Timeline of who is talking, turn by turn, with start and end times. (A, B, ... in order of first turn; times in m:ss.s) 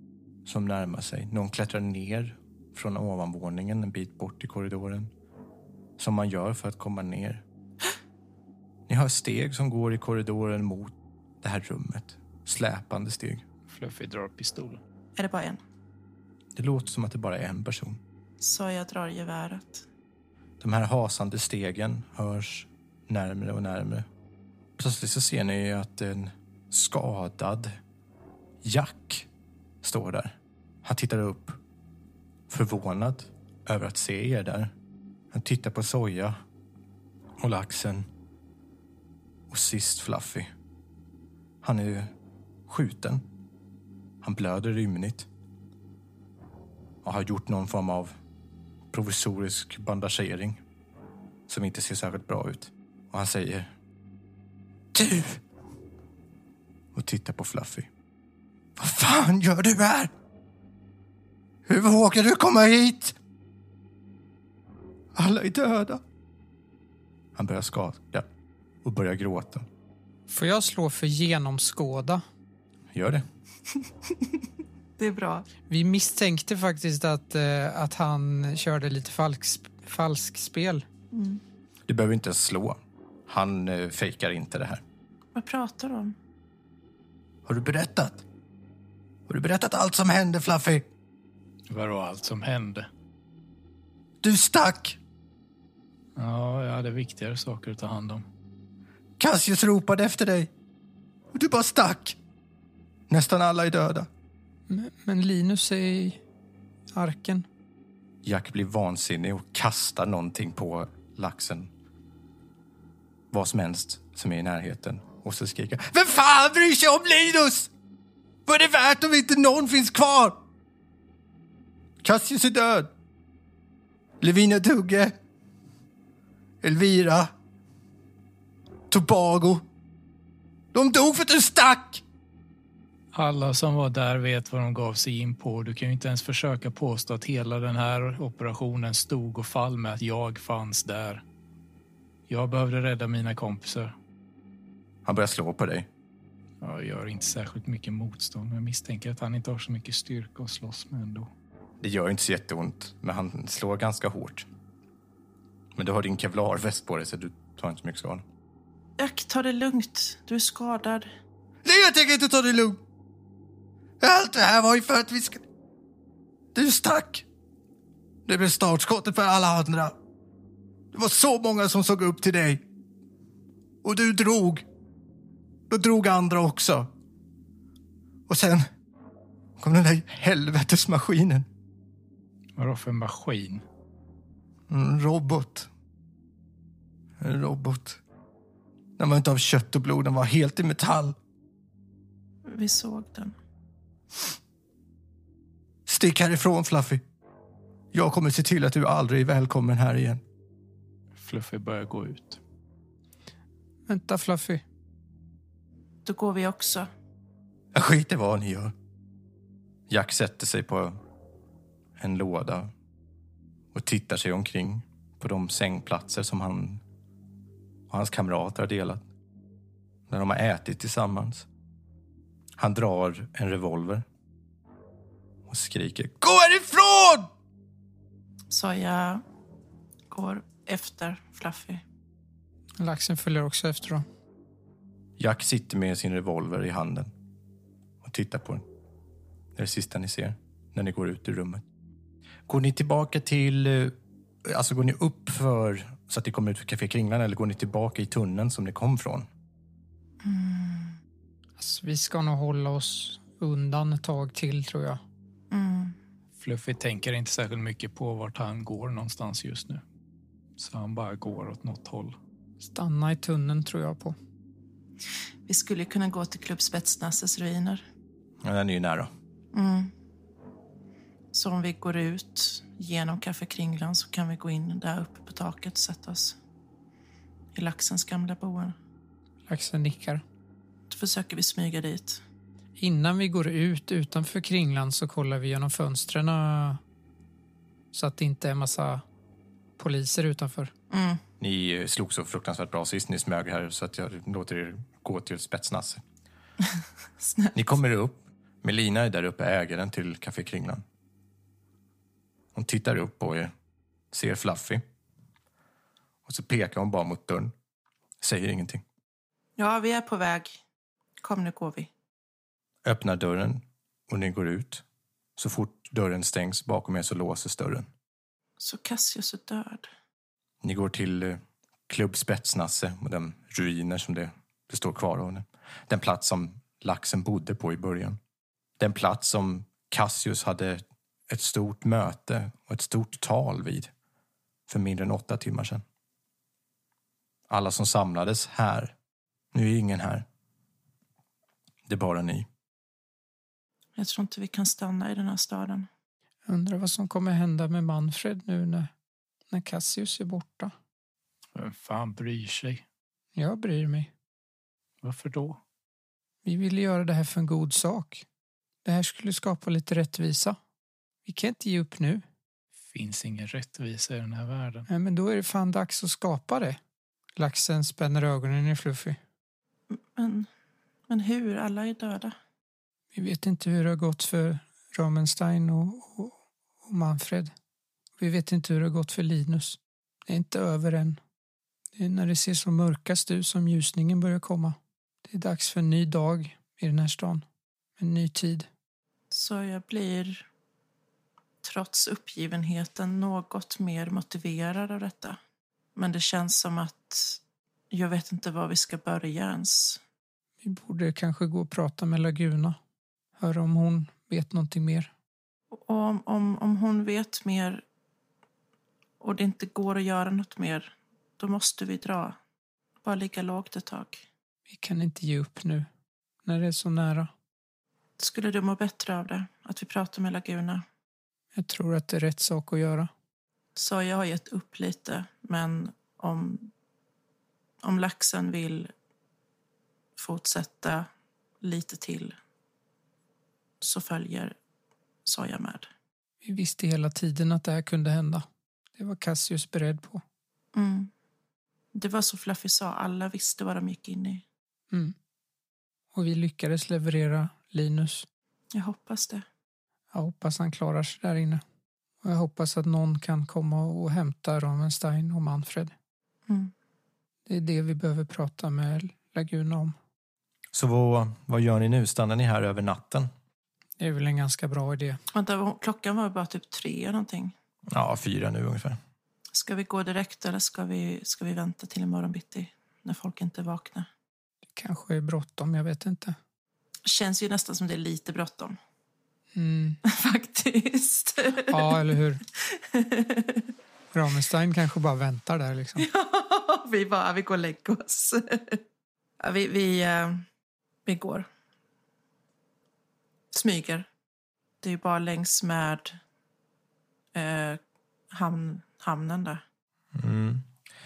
0:00.4-0:05.1 A
0:06.0-0:07.4 A
0:08.9-0:13.4 A
0:13.7-0:14.8 B
0:15.2-0:15.6 C
0:16.6-0:18.0 A
0:18.4-0:19.8 C
0:20.6-0:24.1 A
0:24.8-0:27.8 A
0:28.6-0:29.3 A
0:29.8-0:31.6 A
0:32.5-0:34.7 A
0:35.3-0:36.4 A
0:37.4-0:38.1 A
0:39.5-0:40.5 A
0:41.6-0:42.1 A
0:42.7-0:43.2 A
0:44.2-0:45.3 A
0:47.0-0:48.1 A
0:48.9-0:50.6 A
0:51.5-0:53.7 A
0:54.9-0:55.4 A
0:56.9-0:57.9 A
0:58.8-1:00.1 A
1:01.7-1:03.2 A
1:05.2-1:06.0 A
1:07.4-1:08.2 A
1:08.8-1:09.6 A
1:10.3-1:12.2 D
1:12.9-1:13.2 A
1:15.0-1:15.5 C
1:15.7-1:20.8 D
1:21.1-1:21.4 C
1:21.9-1:24.8 A
1:25.4-1:26.2 C
1:27.5-1:28.2 A
1:29.3-1:30.9 A
1:31.7-1:32.9 B
1:34.2-1:35.0 A
1:36.2-1:38.2 B
1:39.2-1:40.5 A
1:41.3-1:42.2 A
1:43.1-1:44.1 A
1:44.7-1:46.2 D
1:46.9-1:47.5 D
1:48.2-1:51.7 A
1:53.3-1:57.7 A
1:58.5-2:00.4 A
2:02.0-2:02.9 A
2:04.2-2:05.1 A
2:06.6-2:07.3 A
2:08.9-2:09.6 A
2:10.7-2:12.0 A
2:13.1-2:21.2 B
2:22.3-2:23.9 B
2:25.0-2:25.9 A
2:26.6-2:31.3 B
2:31.8-2:34.4 A
2:35.8-2:38.2 A
2:39.0-2:41.1 C
2:41.6-2:42.8 A
2:44.0-2:45.4 A
2:46.5-2:47.2 A
2:48.3-2:50.0 A
2:50.9-2:52.6 A
2:53.8-2:54.6 A
2:55.7-2:56.9 A
2:58.3-2:58.7 A
2:59.6-3:01.5 A
3:02.6-3:03.6 B
3:04.7-3:05.7 A
3:07.2-3:08.0 A
3:09.0-3:11.2 A
3:12.5-3:13.3 C
3:15.9-3:17.0 A
3:17.9-3:20.2 A
3:21.2-3:22.4 B
3:23.9-3:24.6 D
3:26.0-3:26.9 C
3:27.7-3:28.7 A
3:29.9-3:31.0 A
3:32.0-3:32.7 A
3:33.7-3:36.8 A
3:37.9-3:39.0 A
3:40.1-3:41.5 A
3:42.6-3:44.0 A
3:45.5-3:47.3 A
3:48.5-3:49.2 C
3:50.1-3:51.8 C
3:52.8-3:54.0 D
3:55.2-3:57.1 A
3:58.0-3:58.6 A
3:59.6-4:01.6 A
4:02.5-4:09.3 A
4:10.2-4:11.0 C
4:11.6-4:15.0 D
4:15.5-4:16.0 C
4:16.4-4:19.8 B
4:20.6-4:22.2 B
4:22.6-4:24.2 D
4:25.5-4:27.8 C
4:28.4-4:29.1 A
4:29.5-4:29.9 C
4:31.3-4:36.4 C
4:37.5-4:38.8 C
4:39.5-4:40.2 D
4:40.9-4:42.2 C
4:42.8-4:46.8 D
4:47.9-4:49.0 D
4:49.8-4:50.7 D
4:50.9-4:51.2 C
4:51.4-4:56.0 A
4:57.2-4:57.6 C
4:57.5-5:00.8 A
5:02.5-5:03.5 A
5:04.1-5:04.8 A
5:06.3-5:07.5 A
5:08.2-5:08.8 A
5:09.6-5:10.6 C
5:11.2-5:11.9 C
5:12.8-5:14.8 A
5:15.4-5:17.9 A
5:18.6-5:19.9 C
5:20.6-5:28.2 A
5:28.8-5:33.9 A
5:34.7-5:35.8 A
5:37.5-5:38.9 A
5:39.5-5:40.3 A
5:41.9-5:42.5 A
5:44.0-5:45.9 C
5:46.5-5:48.9 D
5:49.5-5:50.7 D
5:51.6-5:52.8 B
5:53.4-5:54.1 D
5:55.0-5:55.6 B
5:56.4-5:58.2 D
5:58.8-6:00.6 D
6:01.2-6:02.2 D
6:02.9-6:04.9 B
6:04.9-6:06.8 D
6:07.4-6:09.2 D
6:09.9-6:10.5 C
6:11.1-6:12.4 C
6:13.1-6:17.5 D
6:18.2-6:21.2 D
6:22.0-6:27.4 D
6:28.0-6:28.7 D
6:29.3-6:30.5 C
6:31.6-6:35.4 C
6:36.0-6:37.4 C
6:37.9-6:40.0 C
6:40.6-6:42.8 D
6:43.4-6:45.1 D
6:45.7-6:47.8 C
6:49.2-6:52.4 C
6:53.0-6:54.2 C
6:54.7-6:55.9 D
6:56.4-6:57.3 D
6:58.2-7:00.8 C
7:01.6-7:03.1 D
7:03.8-7:06.7 C
7:07.8-7:08.9 C
7:10.2-7:11.1 C
7:11.6-7:12.4 C
7:13.8-7:14.6 C
7:15.3-7:15.9 C
7:16.4-7:20.2 D
7:20.7-7:21.1 C
7:21.9-7:24.4 C
7:26.1-7:28.3 D
7:28.7-7:29.4 C
7:30.1-7:31.6 D
7:32.2-7:35.9 D
7:37.5-7:40.0 D
7:40.7-7:43.3 A
7:44.0-7:45.2 D
7:45.3-7:47.5 C
7:47.9-7:49.0 A
7:49.5-7:54.1 C
7:54.8-7:56.4 D
7:57.0-7:58.8 C
7:59.6-8:00.0 D
8:00.0-8:03.7 C
8:01.6-8:02.4 D
8:04.1-8:06.1 D
8:06.0-8:08.8 C
8:09.4-8:10.4 C
8:11.1-8:11.5 C
8:13.5-8:14.1 C
8:14.8-8:16.2 C
8:17.3-8:17.8 C
8:18.3-8:19.6 C
8:20.2-8:20.7 A